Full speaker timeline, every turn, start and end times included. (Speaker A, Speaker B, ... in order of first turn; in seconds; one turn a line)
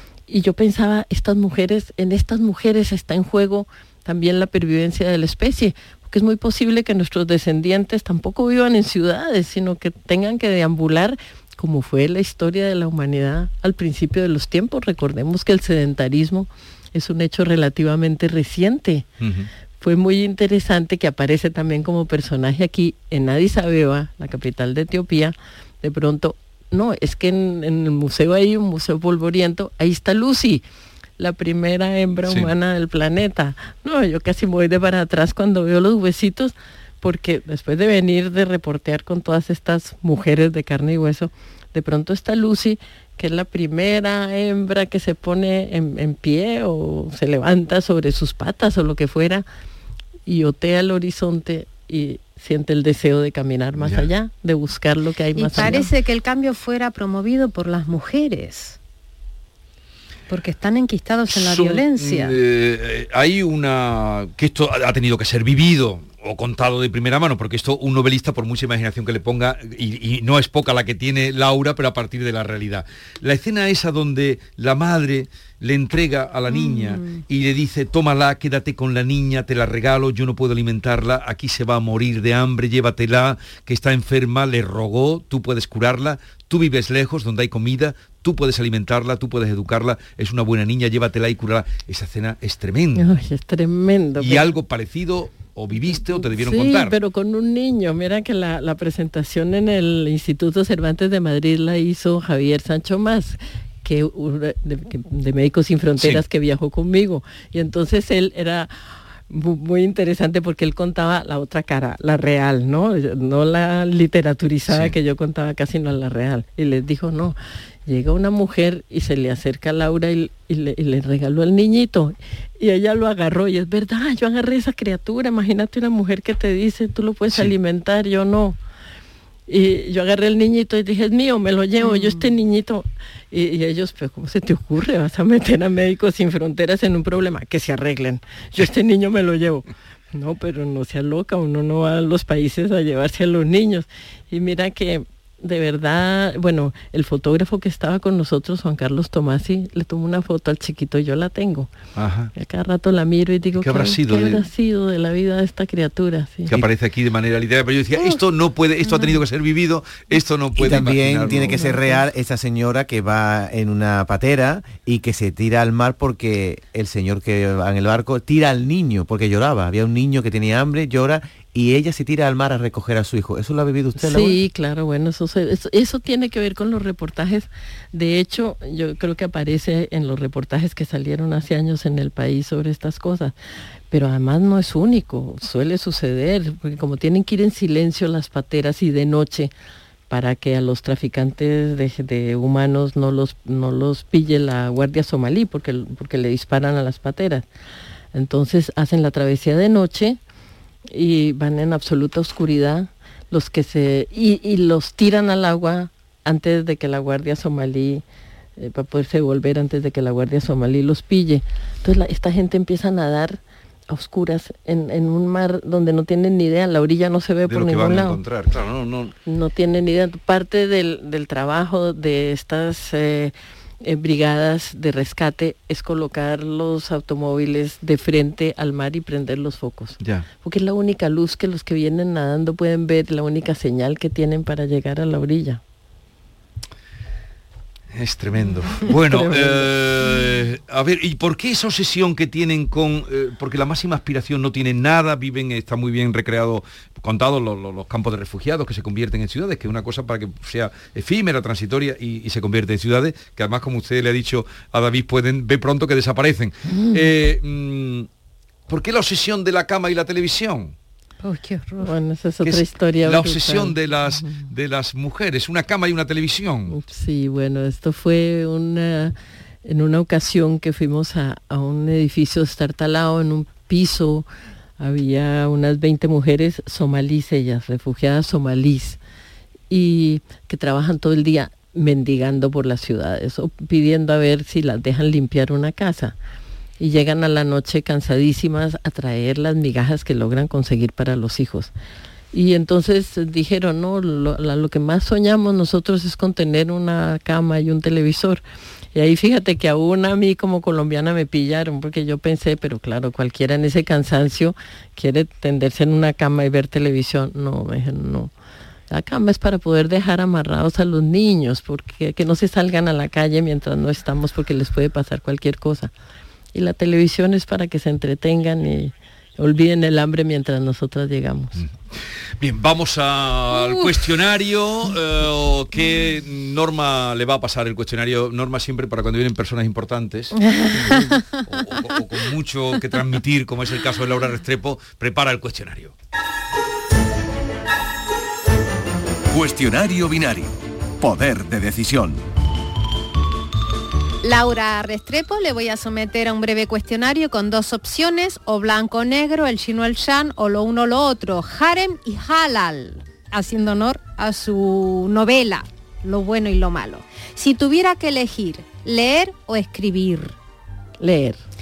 Speaker A: 0.3-19.1
Speaker B: 19.2-19.5
Speaker A: 19.8-30.6
Speaker A: 31.2-49.5
Speaker A: 50.3-55.9
Speaker B: 53.8-54.1
Speaker C: 55.4-58.8
Speaker C: 60.3-62.4
Speaker B: 61.3-93.2
Speaker C: 76.5-77.2
Speaker A: 93.0-94.5
Speaker B: 94.2-97.0
Speaker A: 95.9-108.7
Speaker A: 109.3-128.6
Speaker B: 114.7-115.0
Speaker A: 129.5-151.7
Speaker C: 131.8-132.3
Speaker B: 152.0-152.3
Speaker A: 152.3-156.7
Speaker B: 153.6-154.4
Speaker B: 156.5-161.7
Speaker D: 160.6-174.4
Speaker A: 161.4-161.7
Speaker A: 174.0-183.3
Speaker A: 183.9-189.5
Speaker A: 190.1-197.5
Speaker A: 198.1-200.2
Speaker A: 200.9-208.0
Speaker A: 208.6-218.2
Speaker B: 217.5-219.2
Speaker A: 219.3-235.6
Speaker B: 230.0-230.3
Speaker B: 237.9-258.1
Speaker A: 238.9-239.7
Speaker A: 256.7-257.1
Speaker B: 258.7-260.7
Speaker C: 261.2-261.9
Speaker A: 261.8-263.8
Speaker B: 262.4-266.8
Speaker A: 266.7-269.1
Speaker A: 269.6-274.3
Speaker A: 274.8-279.0
Speaker A: 279.7-286.1
Speaker A: 286.8-291.7
Speaker A: 292.3-298.4
Speaker A: 298.9-308.3
Speaker A: 308.9-315.9
Speaker A: 316.5-321.6
Speaker B: 322.4-335.9
Speaker C: 330.9-331.4
Speaker E: 339.3-342.2
Speaker C: 344.2-360.4
Speaker A: 361.0-361.4